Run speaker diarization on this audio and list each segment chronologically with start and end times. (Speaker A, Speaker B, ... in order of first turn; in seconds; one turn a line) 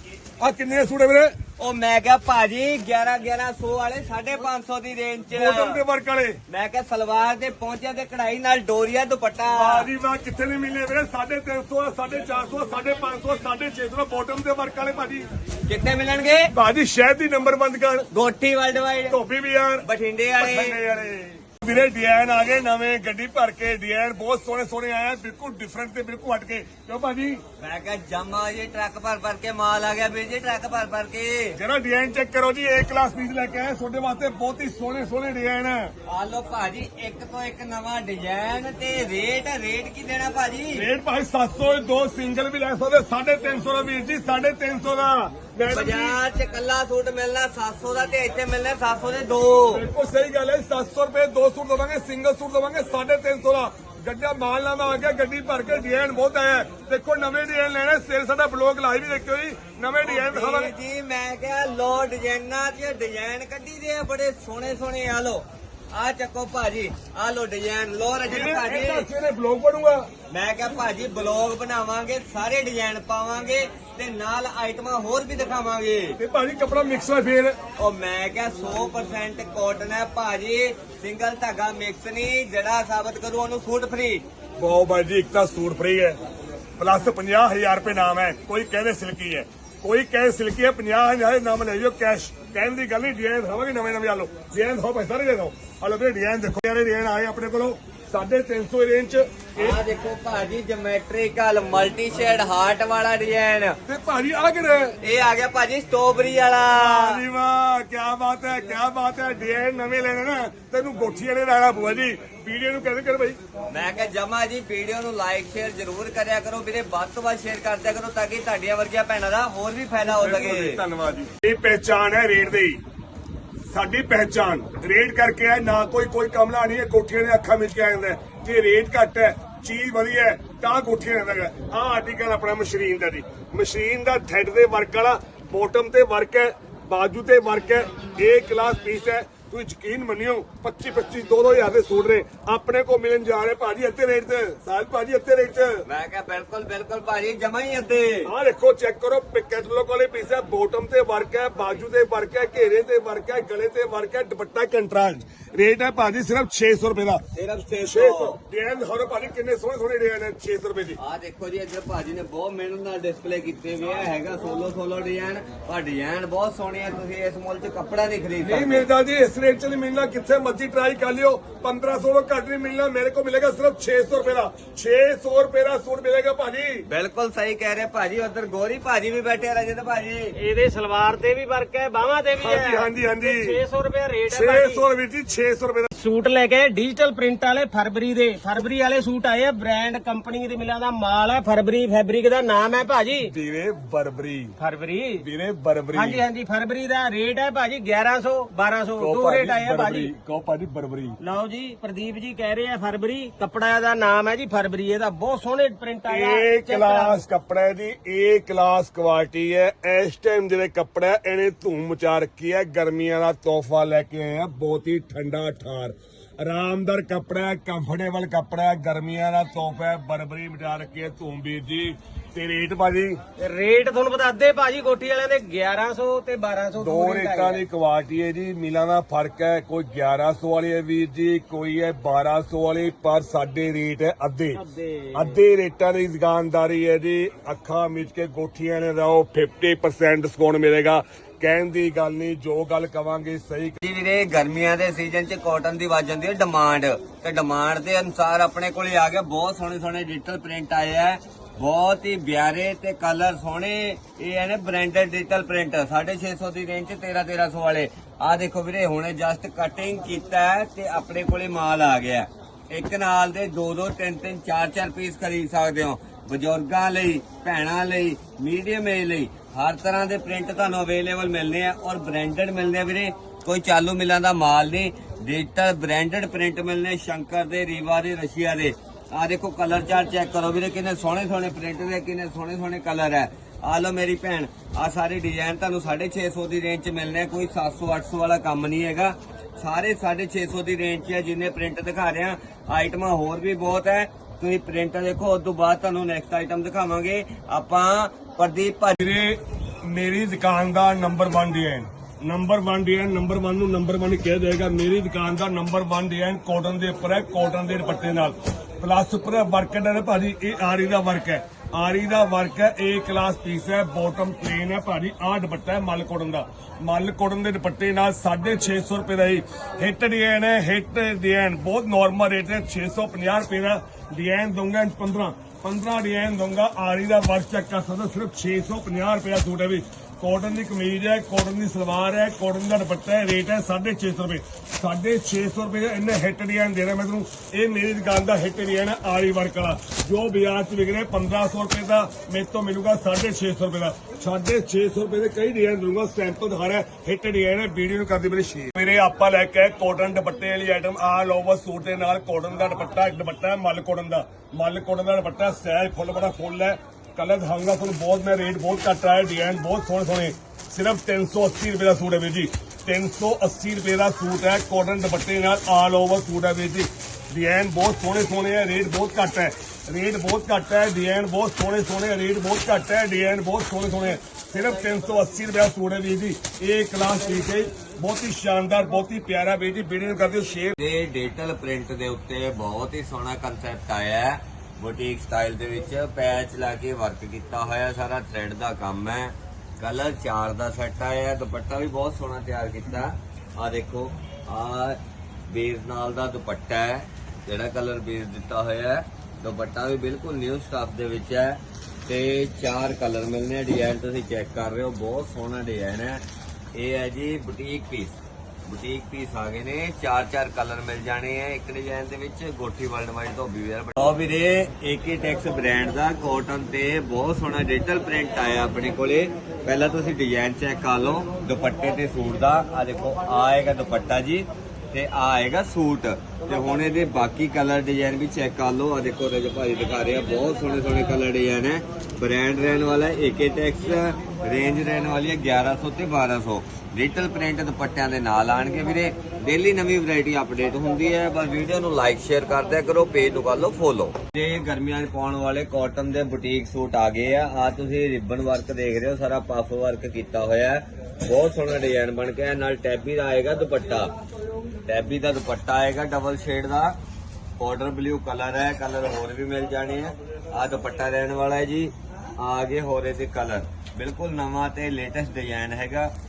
Speaker A: 0.4-1.3
Speaker B: 1.6-5.8
Speaker A: 5.3-6.4
Speaker B: 6.5-9.9
Speaker A: 9.5-15.2
Speaker B: 15.7-16.5
Speaker A: 16.5-18.1
Speaker B: 18.1-19.2
Speaker A: 19.1-19.8
Speaker B: 19.8-20.8
Speaker A: 20.4-27.4
Speaker B: 27.6-31.6
Speaker A: 31.5-35.9
Speaker B: 36.0-40.9
Speaker A: 40.7-46.2
Speaker B: 45.7-49.8
Speaker A: 49.7-60.7
Speaker B: 60.0-69.1
Speaker A: 68.3-70.1
Speaker B: 70.3-76.2
Speaker A: 76.2-77.6
Speaker B: 77.8-84.2
Speaker A: 84.6-86.2
Speaker A: 86.8-99.8
Speaker B: 99.6-103.8
Speaker A: 103.8-105.0
Speaker B: 105.0-107.2
Speaker A: 106.7-113.4
Speaker B: 113.7-120.8
Speaker A: 120.1-122.8
Speaker A: 123.7-145.8
Speaker B: 145.8-148.3
Speaker A: 148.2-157.2
Speaker B: 157.3-158.4
Speaker A: 157.8-161.0
Speaker B: 161.0-168.9
Speaker A: 168.4-176.8
Speaker B: 176.9-180.3
Speaker C: 180.3-184.8
Speaker A: 182.4-183.6
Speaker A: 184.3-185.9
Speaker C: 185.9-193.3
Speaker A: 193.2-194.6
Speaker C: 194.6-195.2
Speaker A: 195.2-196.2
Speaker C: 195.9-200.1
Speaker A: 199.0-201.2
Speaker C: 201.2-207.2
Speaker A: 206.1-223.2
Speaker C: 223.4-227.6
Speaker A: 226.8-234.6
Speaker C: 234.5-235.4
Speaker A: 235.1-243.8
Speaker B: 243.8-299.0
Speaker A: 299.0-380.8
Speaker B: 380.8-406.2
Speaker B: 406.7-454.1
Speaker B: 454.9-457.0
Speaker B: 457.6-466.1